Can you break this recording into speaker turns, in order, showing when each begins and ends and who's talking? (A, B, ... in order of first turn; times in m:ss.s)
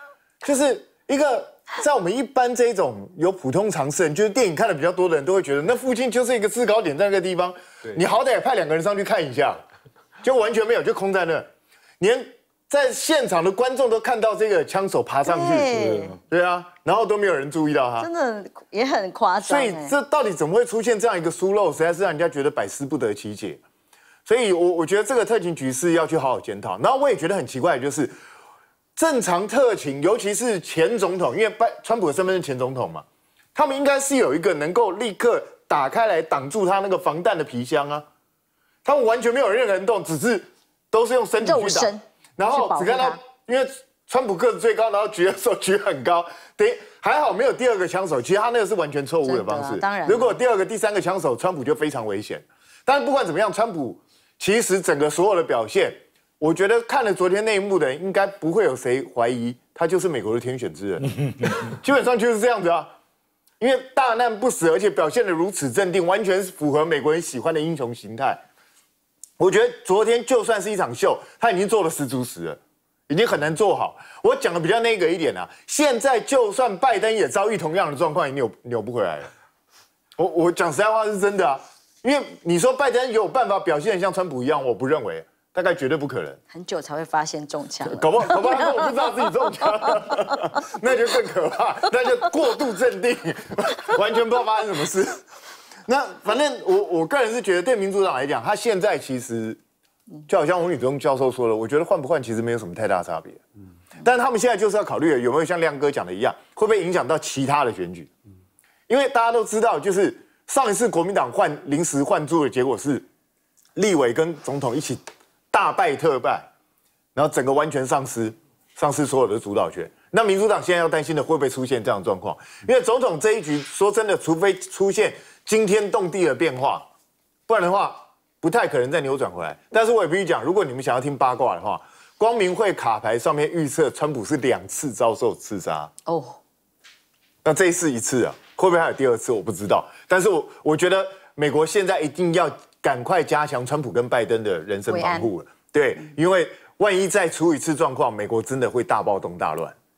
0:00.4-0:09.6 A
0:10.2-0:11.5 A
0:12.0-0:18.1 A
0:15.2-0:16.2 B
0:18.0-0:19.9 B
0:19.4-0:23.6 A
0:24.2-0:28.1 A
0:29.0-0:38.0 A
0:38.8-1:02.9 A
0:41.4-0:43.2 B
0:49.2-0:50.4 B
1:03.6-1:08.4 A
1:09.4-1:19.3 A
1:20.2-1:26.4 A
1:26.5-1:30.0 B
1:27.8-1:35.2 A
1:35.8-1:39.6 A
1:40.3-1:43.4 A
1:44.0-1:48.1 A
1:48.9-1:53.0 A
1:53.8-1:55.0 A
1:55.5-1:56.5 A
1:57.1-2:06.8 A
2:07.5-2:15.9 A
2:16.1-2:16.4 B
2:17.4-2:29.7 A
2:24.8-2:25.3 B